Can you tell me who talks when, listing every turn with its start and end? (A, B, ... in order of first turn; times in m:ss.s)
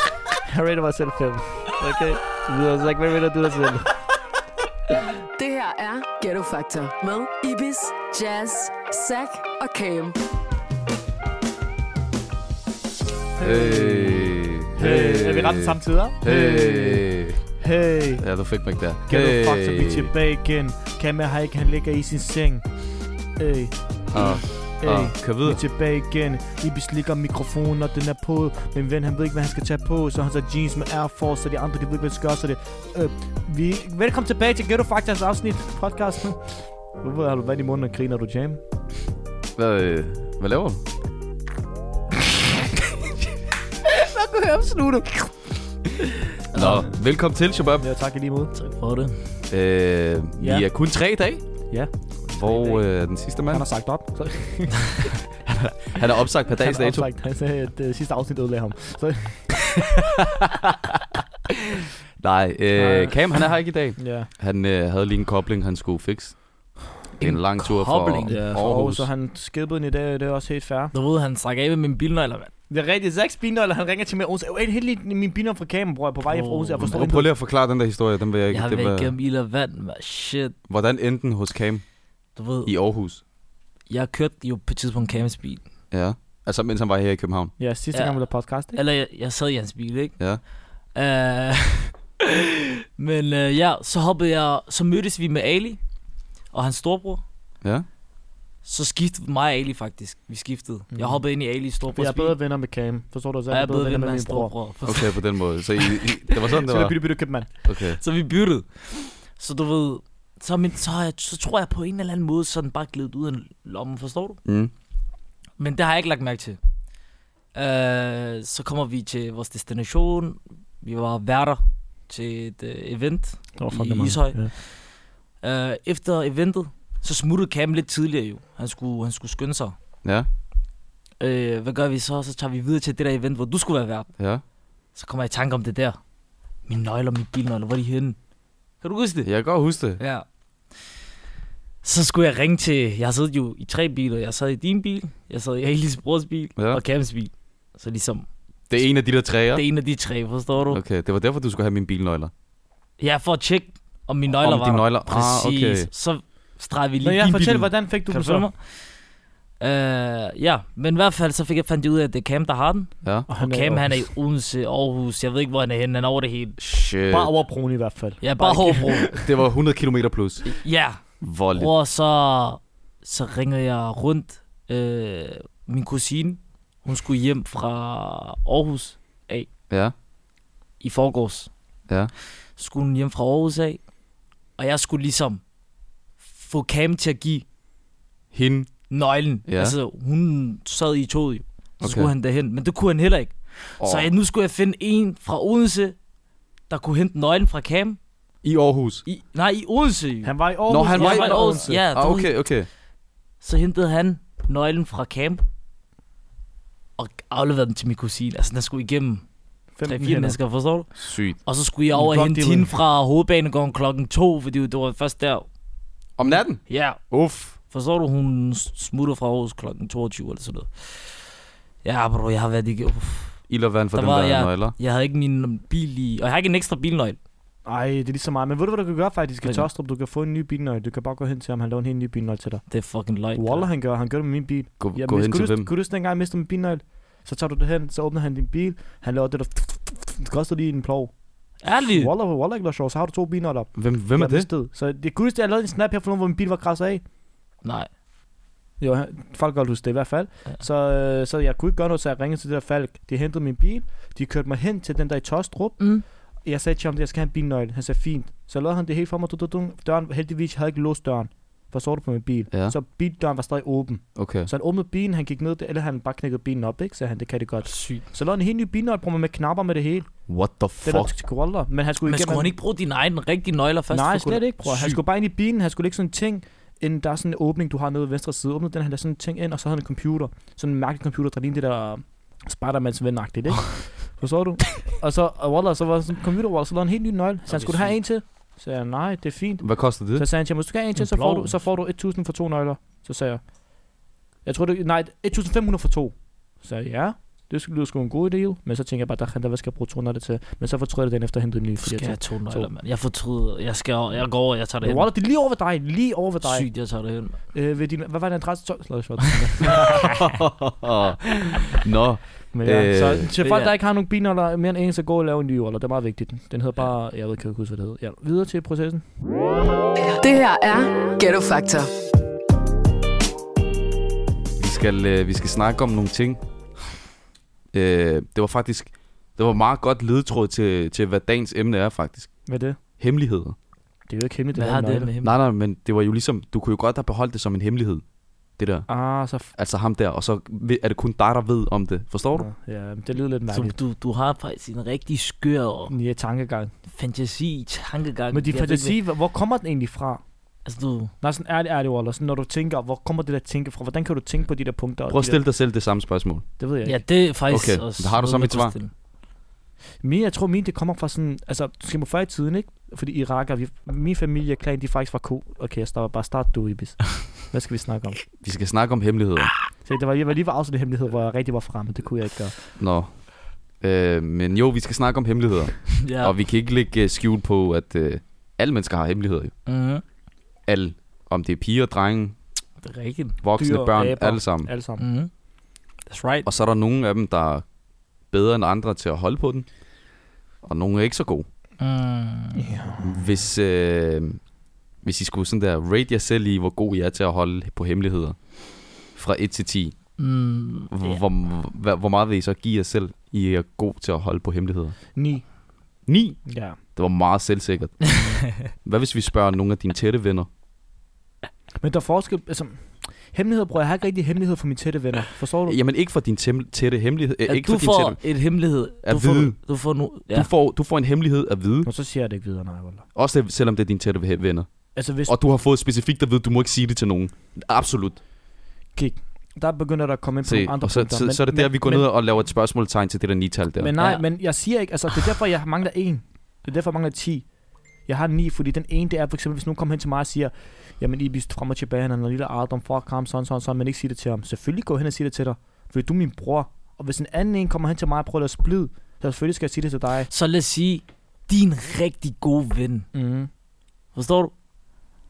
0:00.5-0:03.9 A
0:05.4-0:10.2 B
0:13.4-0:18.2 A
0:13.4-0:17.4 C
0:18.2-0:20.1 C
0:19.1-0:22.7 A
0:23.4-0:38.6 A
0:24.1-0:25.6 C
0:39.6-0:40.8 C
0:44.1-0:45.0 A
0:46.5-0:47.8 C
0:46.6-0:46.9 A
0:47.8-0:48.5 A
0:48.5-0:49.1 D
0:49.5-0:51.4 C
0:50.4-0:50.7 A
0:51.7-0:52.8 A
0:52.3-0:53.7 C
0:53.5-0:55.2 A
0:55.4-0:57.1 C
0:56.6-0:59.6 A
0:59.8-1:01.2 C
1:02.2-1:06.4 C
1:02.7-1:03.2 A
1:04.0-1:04.3 A
1:07.2-1:08.4 D
1:07.2-1:09.1 C
1:08.3-1:10.9 A
1:10.9-1:12.5 D
1:12.7-1:17.3 A
1:16.3-1:17.0 D
1:16.8-1:19.1 C
1:18.5-1:20.6 D
1:20.7-1:21.8 C
1:22.4-1:22.7 D
1:22.6-1:23.2 C
1:23.9-1:25.6 D
1:25.9-1:27.5 C
1:27.6-1:28.8 A
1:28.7-1:30.2 D
1:31.0-1:35.8 D
1:36.5-1:37.2 D
1:38.6-1:42.3 D
1:40.9-1:41.2 A
1:41.9-1:44.5 A
1:43.5-1:45.2 D
1:44.8-1:47.0 C
1:45.8-1:46.3 D
1:46.6-1:47.5 A
1:47.6-1:48.0 C
1:47.8-1:54.4 D
1:54.4-1:54.7 C
1:55.6-1:56.6 D
1:57.6-2:04.8 D
2:03.6-2:04.5 A
2:05.4-2:09.8 D
2:10.0-2:10.3 C
2:11.2-2:14.1 D
2:14.2-2:14.4 C
2:15.0-2:16.0 D
2:16.7-2:18.2 D
2:18.8-2:19.3 D
2:19.2-2:20.0 C
2:20.0-2:20.2 D
2:21.8-2:28.2 D
2:26.6-2:26.8 C
2:28.7-2:29.6 C
2:29.5-2:30.8 D
2:30.7-2:32.3 C
2:33.0-2:38.8 D
2:34.4-2:35.9 C
2:37.0-2:38.5 A
2:37.4-2:37.6 C
2:39.6-2:46.6 D
2:43.3-2:44.1 A
2:46.6-2:47.3 C
2:47.1-2:49.3 A
2:48.2-2:49.1 D
2:49.2-2:50.5 C
2:50.5-2:59.5 D
2:51.2-2:51.7 C
2:59.7-2:59.9 C
3:00.8-3:01.5 D
3:02.6-3:03.8 D
3:04.6-3:05.4 D
3:06.2-3:07.4 D
3:08.3-3:08.8 C
3:08.9-3:15.9 D
3:09.5-3:09.8 C
3:11.8-3:12.1 C
3:13.8-3:14.1 C
3:16.7-3:18.0 D
3:18.4-3:19.0 C
3:19.1-3:20.3 D
3:20.2-3:21.8 A
3:20.7-3:22.7 C
3:20.9-3:22.3 D
3:23.4-3:25.4 D
3:27.0-3:29.2 D
3:29.8-3:30.4 A
3:29.9-3:35.5 D
3:31.0-3:31.4 C
3:31.9-3:32.7 A
3:36.2-3:37.5 C
3:36.6-3:37.0 D
3:37.5-3:41.3 D
3:41.8-3:43.4 D
3:43.5-3:44.8 C
3:43.9-3:47.2 D
3:47.7-3:52.6 A
3:52.7-3:53.7 D
3:53.3-4:01.1 A
3:54.8-3:55.7 C
4:01.6-4:02.1 D
4:01.8-4:07.0 A
4:03.8-4:04.5 C
4:07.6-4:07.9 D
4:08.8-4:15.9 A
4:15.8-4:16.0 D
4:16.4-4:30.1 A
4:24.2-4:24.5 C
4:27.6-4:28.0 D
4:30.3-4:31.1 C
4:30.8-4:32.5 A
4:32.0-4:35.0 D
4:33.9-4:53.4 A
4:47.5-4:48.0 D
4:49.6-4:50.2 C
4:51.0-4:51.6 D
4:54.4-5:02.7 A
5:01.8-5:05.1 D
5:04.8-5:06.7 A
5:06.4-5:07.4 D
5:07.5-5:10.1 A
5:10.0-5:13.3 C
5:12.5-5:19.0 A
5:13.4-5:13.7 D
5:20.2-5:21.9 B
5:24.6-5:26.4 C
5:27.7-5:32.3 C
5:32.5-5:32.8 A
5:33.0-5:33.6 C
5:34.1-5:35.1 A
5:34.5-5:35.3 D
5:35.2-5:38.0 C
5:38.6-5:38.9 C
5:38.9-5:39.5 A
5:39.5-5:42.5 C
5:42.3-5:43.8 A
5:43.5-5:45.9 D
5:45.9-5:46.7 A
5:46.9-5:49.0 D
5:48.3-5:50.2 A
5:50.6-5:51.1 D
5:51.2-5:55.4 A
5:55.1-5:56.4 C
5:56.6-5:57.0 A
5:56.8-5:58.9 D
5:57.5-5:58.8 C
6:00.0-6:08.2 A
6:08.4-6:09.5 C
6:09.8-6:12.6 A
6:12.8-6:13.1 C
6:13.8-6:19.5 C
6:16.0-6:16.3 D
6:19.6-6:20.0 D
6:20.7-6:22.3 C
6:22.8-6:23.4 D
6:23.4-6:24.7 C
6:23.5-6:25.0 A
6:25.0-6:25.3 D
6:26.0-6:26.5 D
6:26.4-6:27.6 C
6:28.3-6:29.6 C
6:30.6-6:31.4 C
6:31.8-6:32.8 D
6:32.6-6:33.1 A
6:33.0-6:34.4 C
6:35.0-6:38.4 C
6:39.1-6:40.0 C
6:40.2-6:41.2 D
6:40.9-6:45.0 C
6:45.1-6:45.4 A
6:46.1-6:46.4 C
6:46.4-6:46.8 A
6:46.9-6:50.5 C
6:48.1-6:48.6 D
6:51.8-6:55.8 A
6:55.7-6:58.2 C
6:57.5-7:00.5 D
6:59.0-6:59.6 C
7:00.3-7:01.9 C
7:01.8-7:03.0 A
7:03.1-7:04.7 C
7:05.0-7:05.4 A
7:05.3-7:08.2 C
7:09.0-7:12.1 A
7:10.4-7:13.9 C
7:13.8-7:17.4 A
7:18.1-7:30.3 A
7:30.3-7:33.1 D
7:33.1-7:33.5 A
7:34.1-7:34.5 D